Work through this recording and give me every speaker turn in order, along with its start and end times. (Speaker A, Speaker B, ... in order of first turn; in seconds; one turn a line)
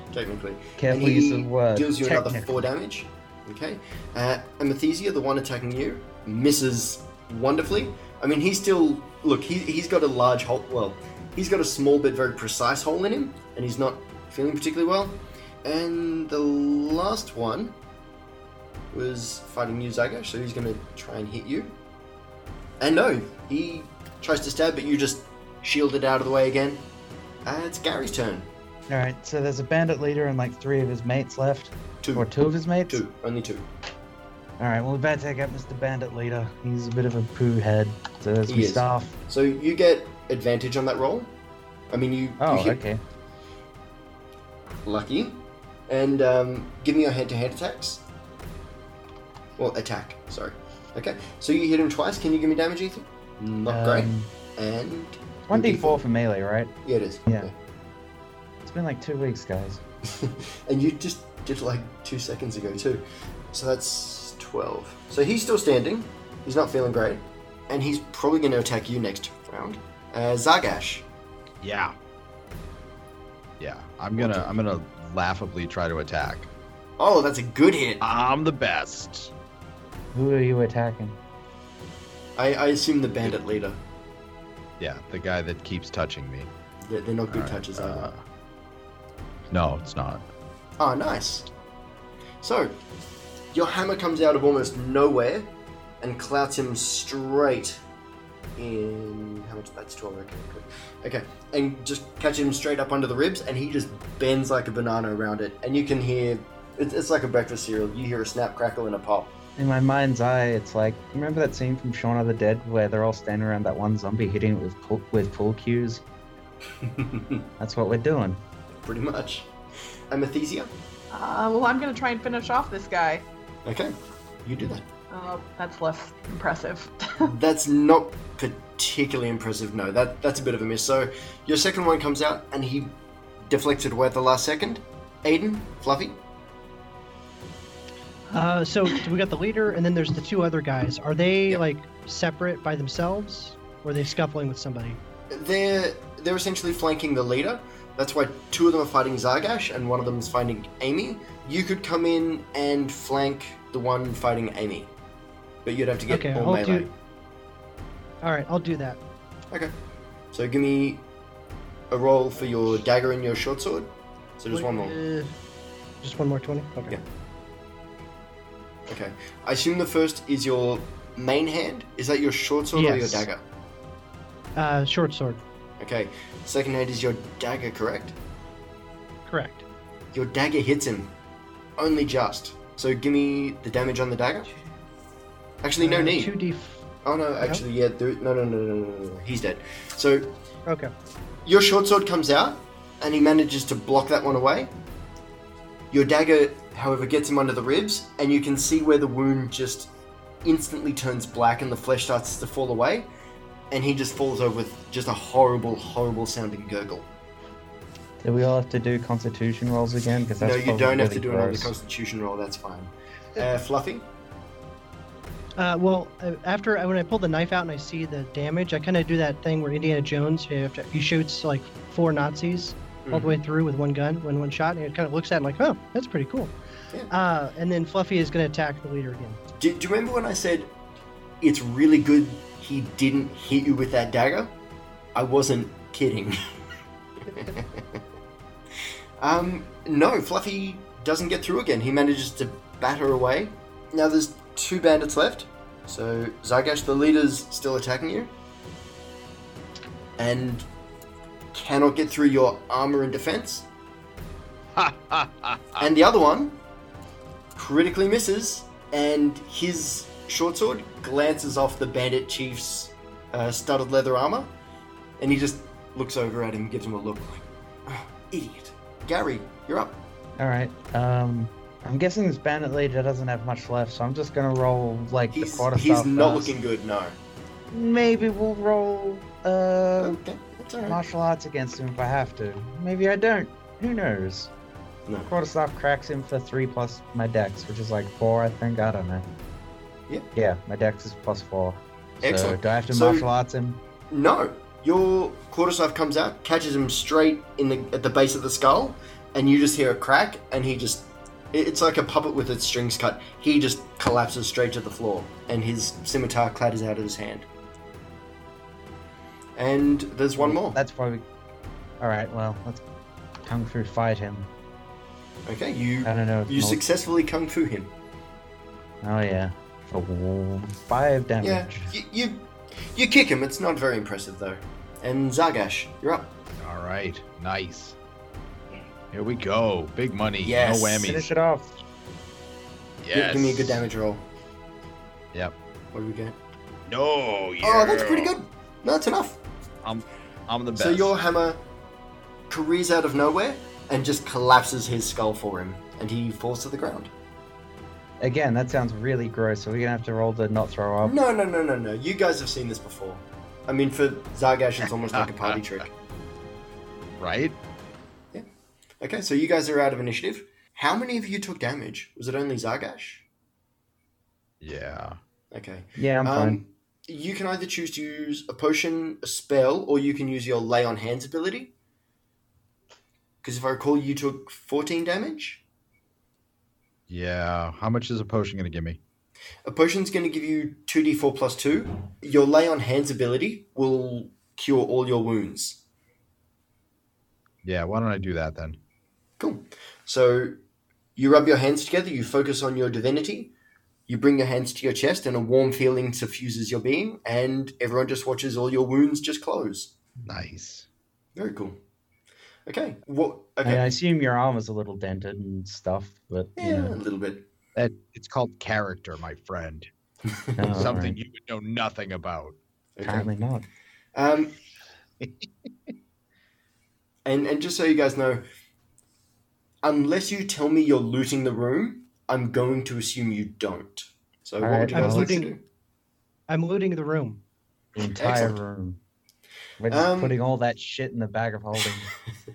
Speaker A: 0.1-17.8
Speaker B: 0.8-2.7
Speaker A: 18.9-21.8
Speaker A: 22.8-26.9
Speaker A: 27.5-28.5
Speaker B: 28.9-33.0
Speaker A: 32.0-32.3
Speaker A: 32.9-33.7
Speaker B: 34.6-39.1
Speaker A: 38.5-41.3
Speaker A: 41.9-42.8
Speaker B: 42.4-43.0
Speaker A: 44.9-48.0
Speaker A: 49.6-56.0
Speaker B: 53.7-54.3
Speaker B: 55.5-56.8
Speaker A: 56.8-57.5
Speaker B: 57.3-57.5
Speaker B: 58.6-59.8
Speaker A: 60.1-71.1
Speaker C: 71.6-72.0
Speaker C: 73.6-76.5
Speaker A: 74.2-74.6
Speaker A: 77.0-78.0
Speaker C: 78.0-79.3
Speaker B: 80.1-81.2
Speaker A: 82.4-83.8
Speaker C: 84.8-86.5
Speaker A: 86.8-88.1
Speaker C: 87.3-88.2
Speaker C: 89.5-90.2
Speaker A: 90.8-91.5
Speaker A: 92.4-92.8
Speaker A: 93.5-97.8
Speaker A: 98.6-109.3
Speaker B: 109.6-116.0
Speaker A: 116.8-117.4
Speaker B: 117.6-118.4
Speaker A: 118.8-119.5
Speaker A: 120.1-120.7
Speaker D: 121.1-123.2
Speaker A: 123.7-124.9
Speaker D: 125.1-127.3
Speaker A: 127.2-136.2
Speaker E: 138.3-145.0
Speaker A: 145.3-154.9
Speaker A: 155.7-156.9
Speaker E: 156.1-156.9
Speaker E: 158.2-159.0
Speaker A: 160.3-161.1
Speaker A: 161.9-165.0
Speaker E: 164.5-165.3
Speaker E: 166.0-167.0
Speaker A: 168.9-173.4
Speaker E: 172.7-173.3
Speaker E: 174.6-175.4
Speaker A: 175.8-178.2
Speaker E: 179.3-179.6
Speaker A: 180.1-181.1
Speaker A: 181.8-184.5
Speaker A: 185.6-186.3
Speaker E: 185.8-186.9
Speaker A: 187.0-190.3
Speaker A: 191.4-194.7
Speaker A: 195.9-199.9
Speaker A: 200.4-203.1
Speaker A: 203.7-207.1
Speaker B: 208.2-211.7
Speaker A: 210.4-214.1
Speaker E: 215.6-226.6
Speaker A: 223.1-223.4
Speaker E: 227.1-229.4
Speaker A: 229.6-230.7
Speaker A: 231.4-234.6
Speaker A: 235.2-236.4
Speaker A: 237.3-238.0
Speaker A: 239.2-248.3
Speaker A: 250.2-250.7
Speaker A: 251.5-253.7
Speaker C: 254.8-255.8
Speaker A: 255.8-256.6
Speaker A: 257.6-264.5
Speaker A: 265.2-270.0
Speaker B: 270.4-276.6
Speaker A: 275.3-277.2
Speaker B: 277.7-280.2
Speaker A: 280.0-281.0
Speaker B: 280.8-284.5
Speaker A: 285.1-285.3
Speaker B: 285.3-289.3
Speaker B: 290.4-293.8
Speaker A: 292.2-293.3
Speaker A: 294.1-307.5
Speaker A: 309.6-310.8
Speaker B: 310.4-311.2
Speaker B: 312.0-312.8
Speaker B: 313.4-314.5
Speaker A: 315.5-317.9
Speaker B: 316.0-316.8
Speaker B: 319.0-322.0
Speaker A: 321.4-326.3
Speaker C: 326.6-328.0
Speaker C: 329.1-331.3
Speaker A: 330.4-331.2
Speaker B: 331.1-331.7
Speaker C: 333.0-333.8
Speaker A: 333.1-334.2
Speaker A: 335.9-336.4
Speaker C: 336.9-338.3
Speaker A: 337.6-339.4
Speaker C: 339.8-341.1
Speaker A: 340.8-341.6
Speaker A: 342.5-347.1
Speaker B: 348.2-351.2
Speaker A: 351.0-355.9
Speaker C: 357.2-357.6
Speaker A: 359.0-363.2
Speaker C: 364.6-365.2
Speaker A: 365.5-371.7
Speaker B: 366.0-366.6
Speaker A: 373.4-375.6
Speaker C: 377.1-379.0
Speaker A: 379.6-385.8
Speaker C: 387.6-388.8
Speaker A: 389.4-390.6
Speaker A: 391.2-393.5
Speaker A: 394.1-399.9
Speaker C: 400.3-400.9
Speaker A: 401.4-401.8
Speaker A: 402.7-403.9
Speaker B: 403.6-407.0
Speaker A: 406.6-407.5
Speaker C: 407.8-409.9
Speaker A: 410.4-410.8
Speaker B: 410.6-411.2
Speaker C: 410.7-412.6
Speaker A: 413.0-413.3
Speaker B: 413.0-413.7
Speaker A: 414.1-414.5
Speaker C: 415.2-415.5
Speaker A: 417.2-418.4
Speaker A: 419.8-425.6
Speaker B: 424.6-425.5
Speaker E: 424.9-425.5
Speaker E: 426.5-427.4
Speaker B: 427.9-429.0
Speaker A: 428.2-428.6
Speaker B: 429.8-432.1
Speaker A: 429.9-430.4